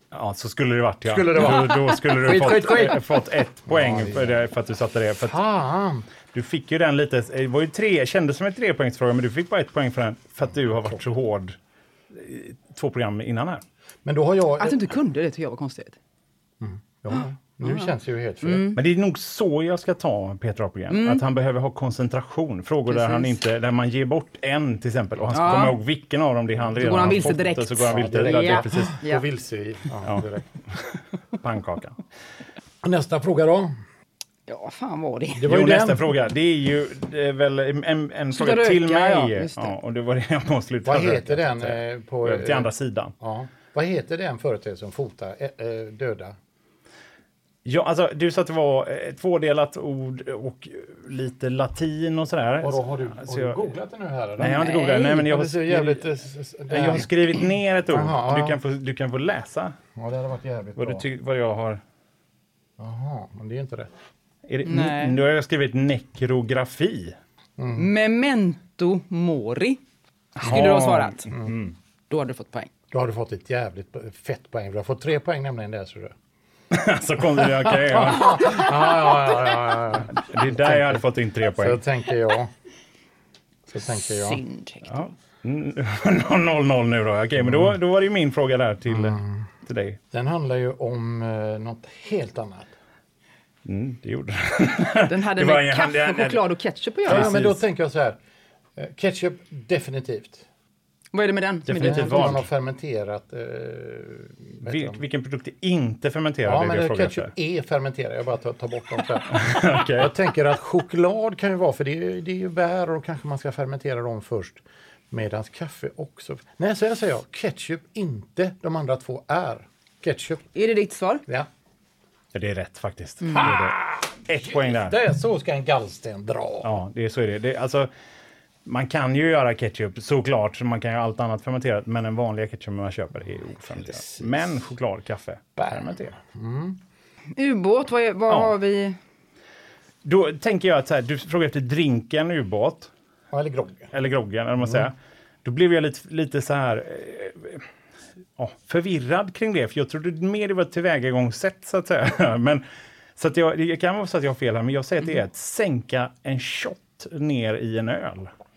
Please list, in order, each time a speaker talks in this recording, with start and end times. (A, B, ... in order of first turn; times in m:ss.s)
0:00.1-0:05.4 A
0:01.0-0:04.4 B
0:05.2-0:06.1 B
0:06.3-0:11.6 A
0:12.1-0:13.6 A
0:14.0-0:14.9 B
0:14.6-0:16.0 C
0:16.6-0:18.8 B
0:17.6-0:17.9 C
0:18.4-0:18.8 C
0:18.7-0:29.0 A
0:20.9-0:21.2 C
0:22.9-0:23.3 C
0:25.3-0:25.8 C
0:26.7-0:30.4 B
0:26.8-0:29.2 C
0:30.0-0:30.8 A
0:31.4-0:32.0 A
0:32.8-0:33.7 B
0:34.5-0:35.5 C
0:35.3-0:36.1 B
0:35.4-0:43.1 A
0:38.3-0:39.7 C
0:40.8-0:46.4 B
0:47.6-0:53.6 A
0:52.6-0:57.1 B
0:54.4-0:56.0 A
0:54.6-0:55.1 C
0:56.7-0:59.8 A
0:57.9-0:58.6 B
1:00.0-1:01.0 B
1:00.8-1:01.8 A
1:02.8-1:03.9 B
1:04.4-1:07.2 A
1:04.6-1:05.2 C
1:07.6-1:07.9 B
1:07.7-1:09.8 C
1:10.4-1:11.3 C
1:10.4-1:11.7 A
1:11.3-1:11.6 B
1:12.1-1:12.7 C
1:12.9-1:16.1 B
1:16.7-1:18.7 A
1:17.7-1:22.5 B
1:20.1-1:21.8 A
1:23.7-1:24.4 B
1:23.9-1:24.9 C
1:24.8-1:30.0 A
1:27.5-1:27.7 B
1:28.9-1:29.4 B
1:30.1-1:32.7 B
1:33.6-1:36.4 A
1:35.0-1:37.3 C
1:37.0-1:37.6 A
1:37.0-1:38.2 B
1:38.8-1:40.4 B
1:41.1-1:42.4 C
1:41.7-1:42.5 A
1:41.8-1:45.0 B
1:44.6-1:47.3 A
1:46.4-1:49.4 B
1:49.3-1:50.2 A
1:49.9-2:00.4 B
2:00.5-2:01.2 C
2:02.3-2:05.0 A
2:03.3-2:06.7 B
2:06.6-2:07.9 A
2:08.6-2:16.1 A
2:13.8-2:14.6 B
2:15.6-2:16.8 B
2:17.4-2:19.0 C
2:18.3-2:18.5 A
2:20.0-2:22.9 A
2:23.3-2:23.9 B
2:23.9-2:27.6 A
2:28.4-2:32.6 A
2:33.2-2:38.3 A